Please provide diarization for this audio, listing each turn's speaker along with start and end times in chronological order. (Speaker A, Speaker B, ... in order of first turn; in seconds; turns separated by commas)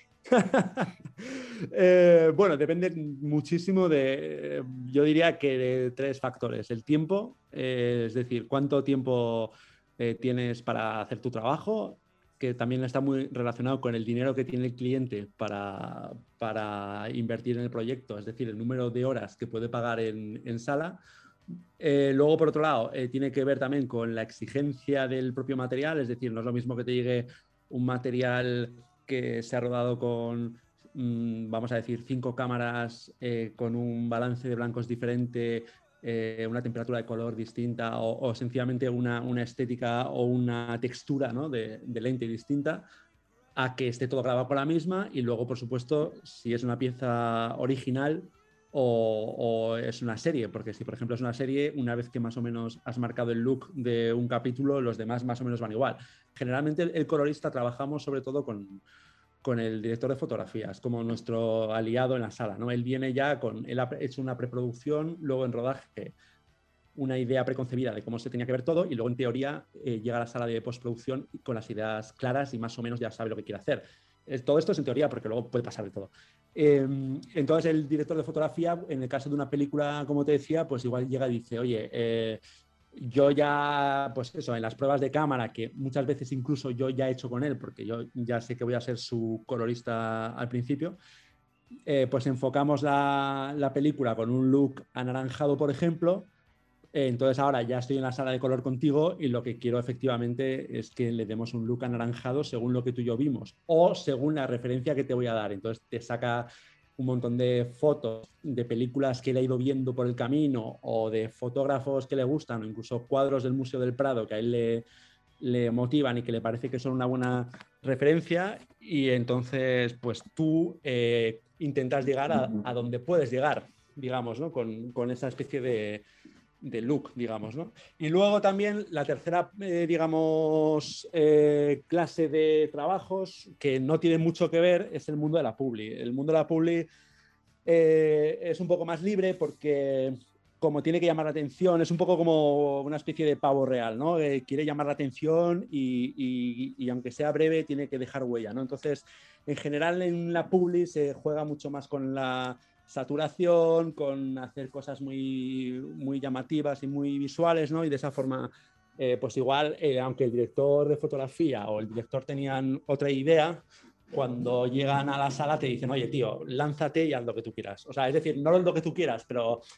Speaker A: 0.3-21.0, Speaker A: 21.8-42.9, Speaker A: 43.6-58.8, Speaker A: 59.4-66.1, Speaker A: 67.0-82.4, Speaker A: 83.0-91.0, Speaker A: 91.9-96.3, Speaker A: 96.9-114.8, Speaker A: 115.4-126.0, Speaker A: 126.6-136.9, Speaker A: 137.7-169.6